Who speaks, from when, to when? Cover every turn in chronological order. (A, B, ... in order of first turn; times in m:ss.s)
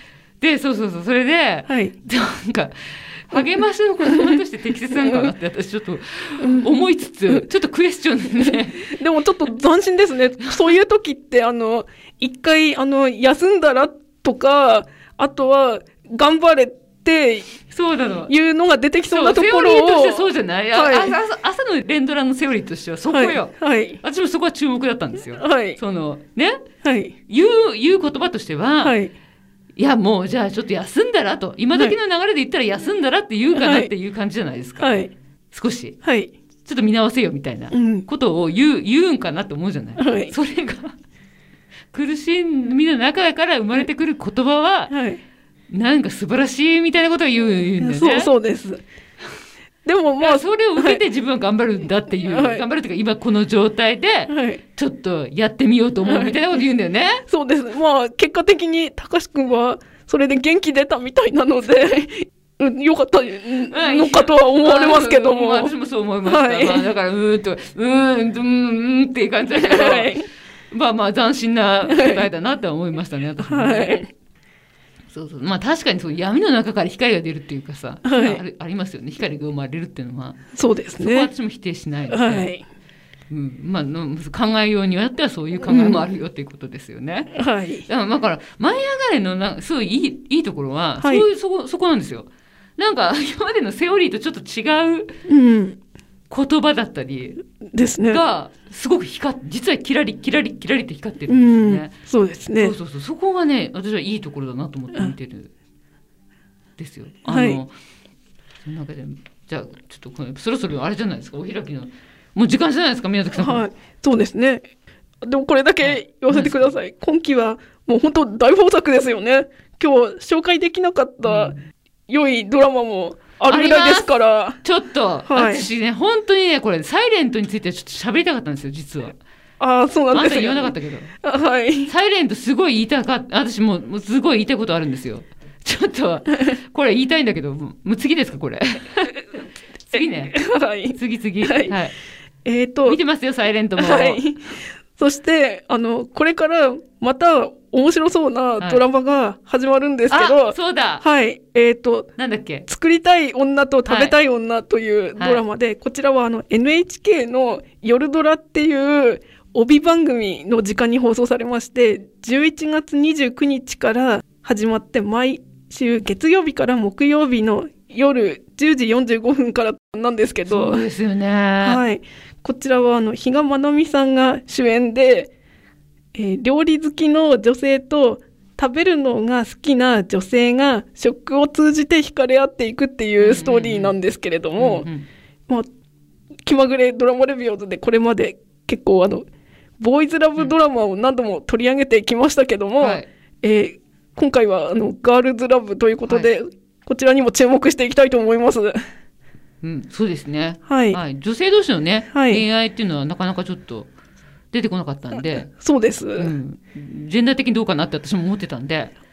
0:00.4-0:08.9 A
0:01.7-0:01.9 B
0:04.0-0:04.4 B
0:04.9-0:05.3 B
0:06.4-0:06.7 B
0:08.4-0:17.6 B
0:17.7-0:18.3 A
0:18.3-0:21.2 B
0:19.1-0:26.6 A
0:23.1-0:24.0 B
0:25.3-0:25.8 B
0:26.8-0:27.1 B
0:27.3-0:29.0 A
0:28.8-0:29.1 B
0:29.8-0:34.9 A
0:33.6-0:33.9 B
0:34.8-0:35.1 B
0:35.5-0:36.0 A
0:36.0-0:36.3 B
0:36.6-0:41.0 A
0:37.7-0:38.1 B
0:40.0-0:40.3 B
0:41.9-0:44.9 A
0:44.9-0:45.2 B
0:45.7-0:48.3 A
0:47.8-0:48.8 B
0:49.9-0:51.0 B
0:50.2-0:57.2 A
0:52.2-0:52.6 B
0:54.3-0:54.6 B
0:56.0-0:56.4 B
0:57.3-1:05.7 B
1:03.7-1:10.1 A
1:06.2-1:06.9 B
1:09.5-1:10.3 B
1:10.7-1:13.9 A
1:11.9-1:12.2 B
1:13.4-1:14.1 B
1:15.1-1:20.4 A
1:18.0-1:18.4 B
1:20.6-1:21.3 B
1:21.0-1:22.5 A
1:22.1-1:22.6 B
1:23.3-1:27.3 A
1:25.7-1:26.0 B
1:27.3-1:27.9 B
1:27.9-1:35.1 A
1:35.3-1:35.8 B
1:36.3-1:37.4 A
1:37.7-1:38.2 B
1:38.0-1:41.9 A
1:41.3-1:42.8 B
1:42.6-1:45.5 A
1:46.8-1:47.7 A
1:47.3-1:47.6 B
1:48.6-1:53.6 A
1:53.3-1:54.6 B
1:55.2-2:01.5 B
1:55.8-1:56.7 A
2:01.2-2:01.6 A
2:02.1-2:04.6 B
2:03.5-2:09.2 A
2:05.3-2:05.7 B
2:09.6-2:11.9 B
2:10.1-2:11.1 A
2:11.9-2:19.0 A
2:19.9-2:20.4 A
2:20.3-2:21.7 B
2:20.9-2:21.9 A
2:22.4-2:23.0 B
2:22.9-2:24.2 A
2:23.8-2:32.1 B
2:30.1-2:31.0 A
2:32.2-2:32.7 A
2:32.7-2:50.8 B
2:33.8-2:34.2 A
2:35.2-2:35.4 A
2:50.5-2:51.8 A
2:51.6-2:55.3 B
2:56.2-3:04.9 B
3:03.2-3:04.0 A
3:04.6-3:05.1 A
3:06.5-3:09.3 B
3:09.8-3:18.8 B
3:12.8-3:13.1 A
3:19.6-3:23.9 A
3:20.7-3:21.0 B
3:22.1-3:22.4 B
3:24.5-3:25.5 A
3:25.5-3:26.3 B
3:26.2-3:28.9 A